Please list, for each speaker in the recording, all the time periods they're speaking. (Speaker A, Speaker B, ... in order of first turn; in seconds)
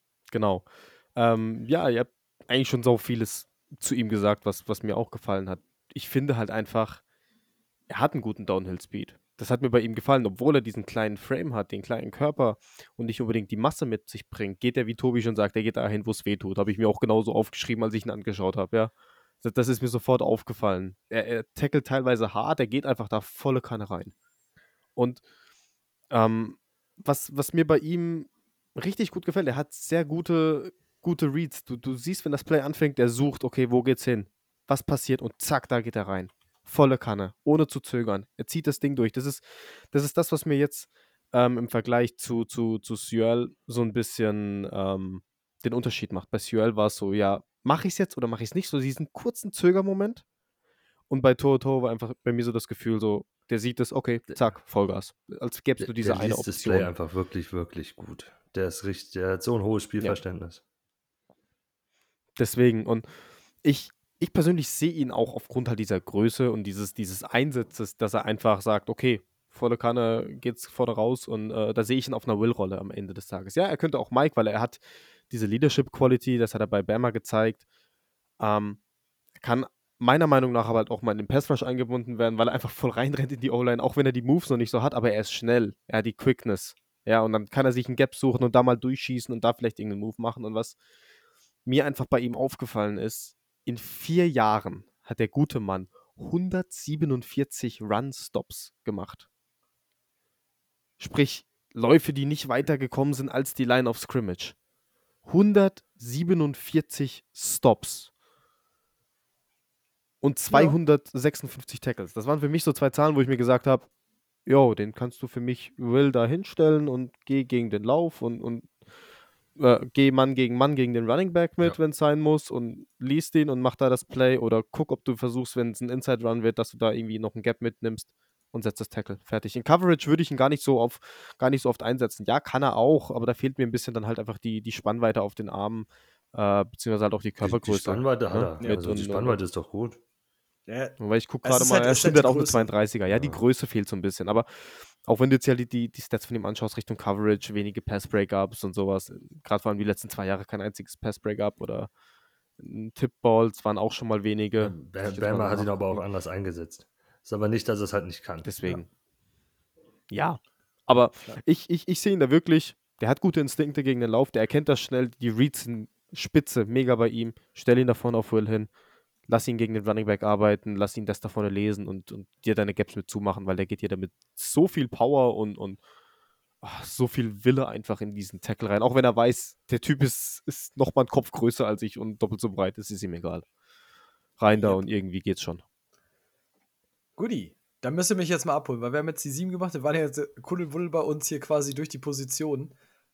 Speaker A: 0.3-7.0, 7.9-24.1, 24.9-25.2, 26.1-50.2, 51.1-56.9, 62.4-77.6, 78.4-78.8, 79.4-90.8, 91.7-99.2, 101.0-104.5, 105.2-108.1, 110.2-113.9, 114.5-118.8, 119.5-139.4, 141.0-151.9, 152.6-156.0, 158.4-158.9, 160.1-168.7, 169.3-175.8, 176.6-183.4, 184.4-185.6
Speaker B: 55.8-60.6, 137.4-140.0, 143.1-143.4, 154.6-158.5
Speaker C: 110.5-110.8, 138.6-138.8, 140.7-142.7, 184.5-184.8, 187.2-192.7